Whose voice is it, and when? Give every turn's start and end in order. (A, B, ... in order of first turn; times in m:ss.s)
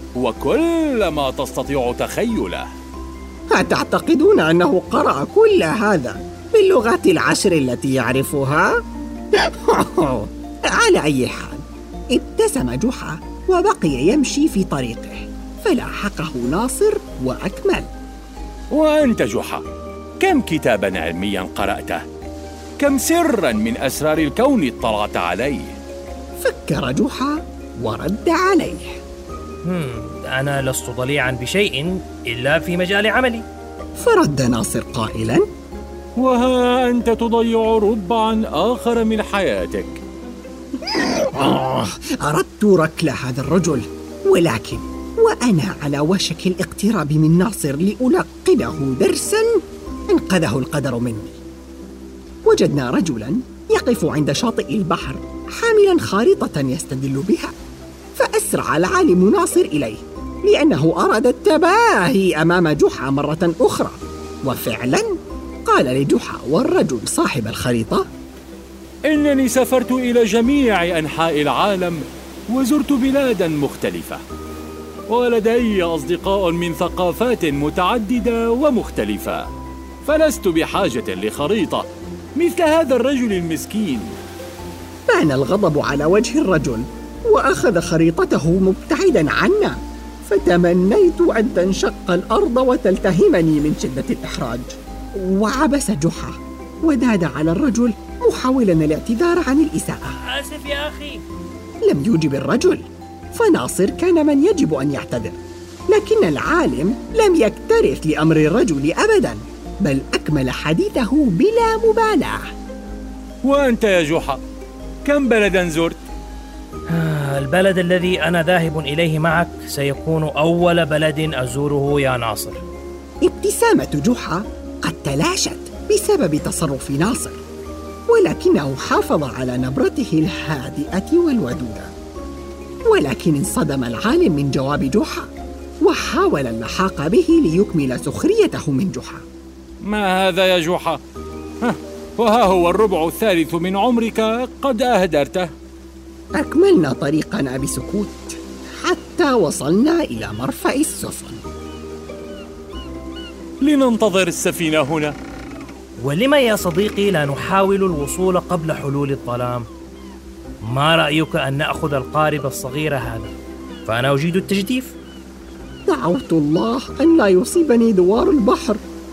0:00.2-0:02.6 A
0:03.5-0:08.7 B
0:09.3-0:17.9 B
0:18.7-0:19.6 A
0:20.2-0:22.0 A
0:22.8-0:25.8 A
0:26.4-0:29.0 B
0:29.6-0:33.4 C
0:34.0-0:35.4 B
0:36.2-0:40.0 A
0:40.8-0:49.5 B
0:50.1-0:51.4 B
0:52.4-0:57.5 B
0:58.2-1:05.1 B
1:05.7-1:08.0 B
1:09.1-1:14.2 A
1:15.1-1:19.5 A
1:20.0-1:24.1 A
1:25.1-1:40.2 B
1:40.2-1:41.2 C
1:41.9-1:45.4 B
1:45.9-1:52.5 B
1:53.4-1:54.4 A
1:55.0-1:56.0 A
1:56.9-2:02.6 C
2:03.2-2:07.4 B
2:08.1-2:11.9 B
2:12.9-2:15.3 B
2:15.8-2:19.2 B
2:19.9-2:21.0 A
2:21.6-2:25.5 A
2:26.4-2:31.4 B
2:33.6-2:35.1 A
2:36.0-2:39.6 C
2:40.7-2:43.3 C
2:43.8-2:44.9 C
2:45.9-2:48.8 B